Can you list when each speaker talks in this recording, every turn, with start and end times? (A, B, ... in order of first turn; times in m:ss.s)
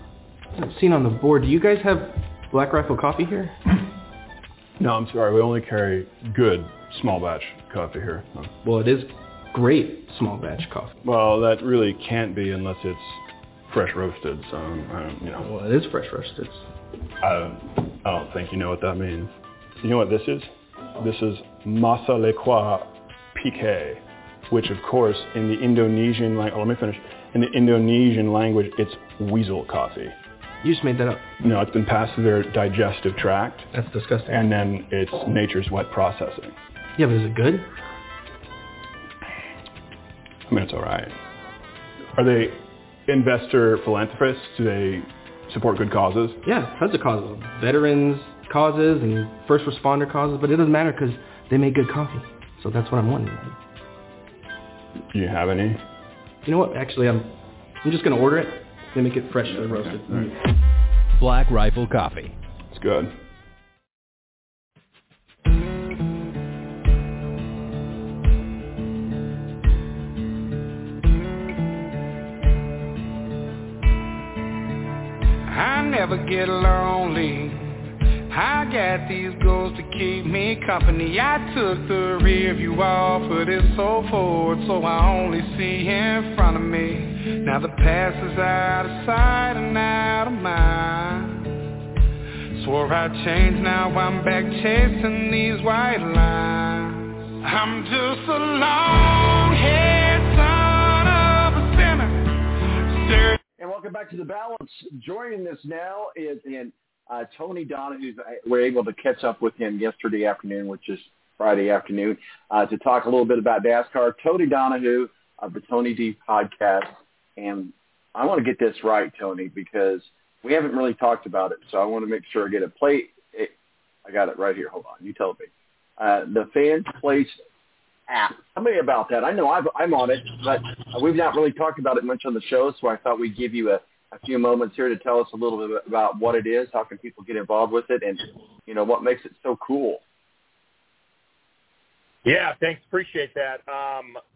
0:00.6-0:03.5 A
0:04.8-0:08.5 B
0:08.6-0:10.9 A
0:08.7-0:09.0 C
0:09.6-0:10.9 C
0:11.0-0:15.5 B
0:15.4-0:16.4 A
0:15.4-0:16.6 C
0:17.2-0:30.1 B
0:30.6-0:31.2 A
0:30.7-0:31.2 C
0:31.4-0:33.7 B
0:33.8-0:34.4 C
0:34.3-0:36.6 B
0:37.0-0:37.6 A
0:40.5-0:41.2 B
0:42.2-0:46.4 B
0:46.5-0:53.5 A
0:48.2-0:53.5 C
0:55.1-0:55.8 B
0:56.5-0:57.2 A
0:57.8-0:59.8 A
0:58.1-0:59.9 C
1:01.2-1:02.3 C
1:01.8-1:02.2 A
1:02.7-1:03.2 B
1:15.5-1:31.5 C
1:32.5-1:43.4 C
1:43.6-2:03.5 D
2:04.0-2:07.4 D
2:08.1-2:20.0 D
2:22.2-2:24.2 E